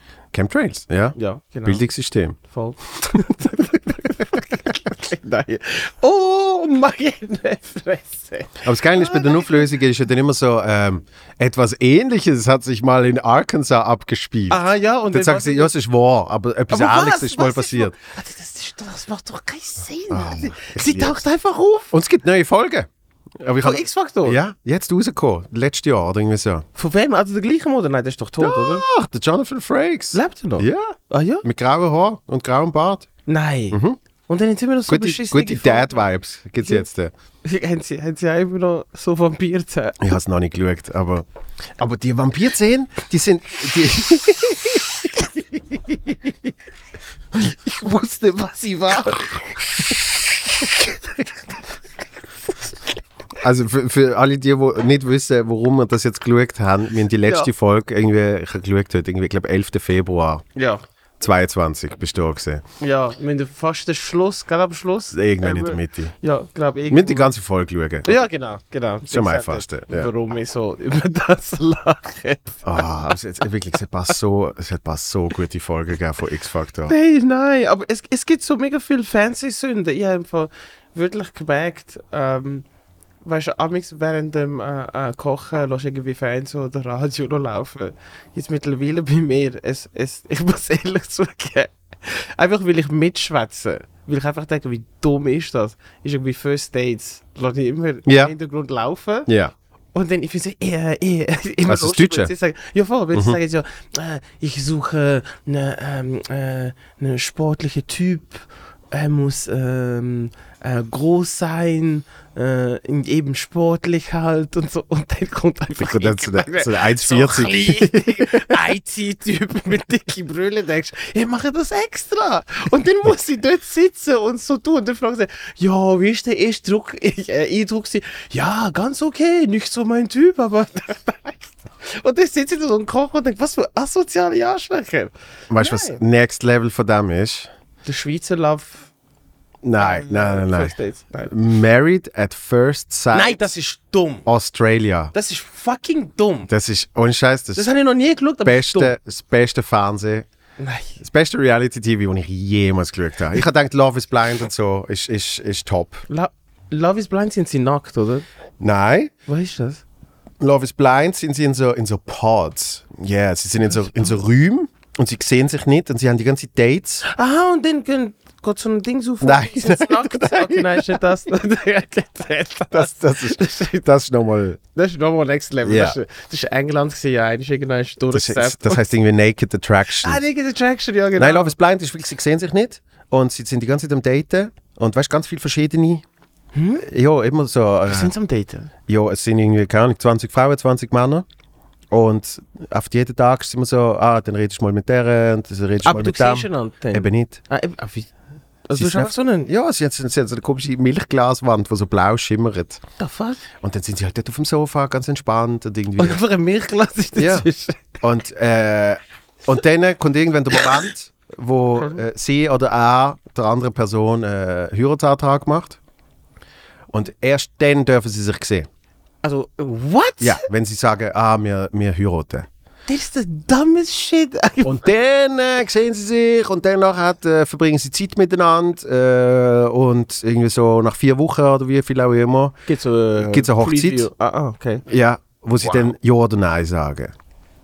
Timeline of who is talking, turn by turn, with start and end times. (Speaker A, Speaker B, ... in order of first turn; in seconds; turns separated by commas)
Speaker A: 0.3-2.4, Speaker B: 1.2-1.8, Speaker B: 2.5-9.7, Speaker A: 8.6-17.9, Speaker B: 14.5-15.7, Speaker B: 16.7-21.9, Speaker A: 20.1-21.2, Speaker A: 21.9-26.6, Speaker B: 23.6-24.4, Speaker B: 26.8-28.9, Speaker A: 28.4-33.1, Speaker B: 30.1-31.4, Speaker B: 33.3-36.1, Speaker A: 33.7-34.0, Speaker A: 34.9-37.1, Speaker B: 37.4-40.0, Speaker A: 40.0-41.3, Speaker A: 41.8-44.8, Speaker B: 45.7-46.3, Speaker B: 47.4-49.8, Speaker B: 50.8-51.3, Speaker A: 53.4-60.4, Speaker B: 60.5-60.8, Speaker A: 61.2-62.6, Speaker B: 62.8-67.3, Speaker A: 65.1-66.1, Speaker A: 66.9-68.2, Speaker B: 68.0-72.8, Speaker A: 69.1-70.1, Speaker A: 72.6-76.9, Speaker B: 76.9-82.7, Speaker B: 83.2-99.3, Speaker A: 98.0-98.3, Speaker A: 99.3-99.5, Speaker B: 99.9-136.0, Speaker A: 101.7-102.3, Speaker A: 103.1-103.4, Speaker A: 115.8-118.6, Speaker A: 135.5-137.5, Speaker B: 137.8-138.9, Speaker A: 139.6-140.7, Speaker B: 139.8-141.3, Speaker A: 141.3-143.5, Speaker B: 143.1-144.3, Speaker A: 144.3-145.1, Speaker B: 145.1-146.5, Speaker A: 146.5-147.7, Speaker B: 147.6-148.9, Speaker A: 148.4-150.3, Speaker B: 150.6-151.0, Speaker A: 151.0-156.0, Speaker B: 156.1-158.3, Speaker A: 158.6-159.1, Speaker B: 159.3-159.8, Speaker A: 160.4-167.0, Speaker B: 167.0-173.8, Speaker A: 169.2-170.9, Speaker A: 172.7-174.6, Speaker B: 174.8-178.8, Speaker A: 175.6-176.0, Speaker A: 178.1-180.2, Speaker B: 180.0-181.6, Speaker A: 181.2-186.0, Speaker B: 186.5-186.8, Speaker A: 186.8-188.1, Speaker B: 187.9-188.7, Speaker A: 188.9-191.3, Speaker A: 191.9-197.4, Speaker B: 195.8-198.1, Speaker B: 198.7-199.5, Speaker A: 198.8-202.8, Speaker B: 203.0-203.4, Speaker A: 203.6-206.2, Speaker B: 206.0-207.8, Speaker A: 207.2-207.5, Speaker A: 208.0-215.8, Speaker B: 211.8-212.0, Speaker A: 216.9-218.7, Speaker B: 219.2-220.4, Speaker A: 220.2-222.5, Speaker B: 222.9-224.8, Speaker A: 224.6-232.6, Speaker B: 232.7-234.8, Speaker A: 233.2-234.1, Speaker A: 234.9-237.1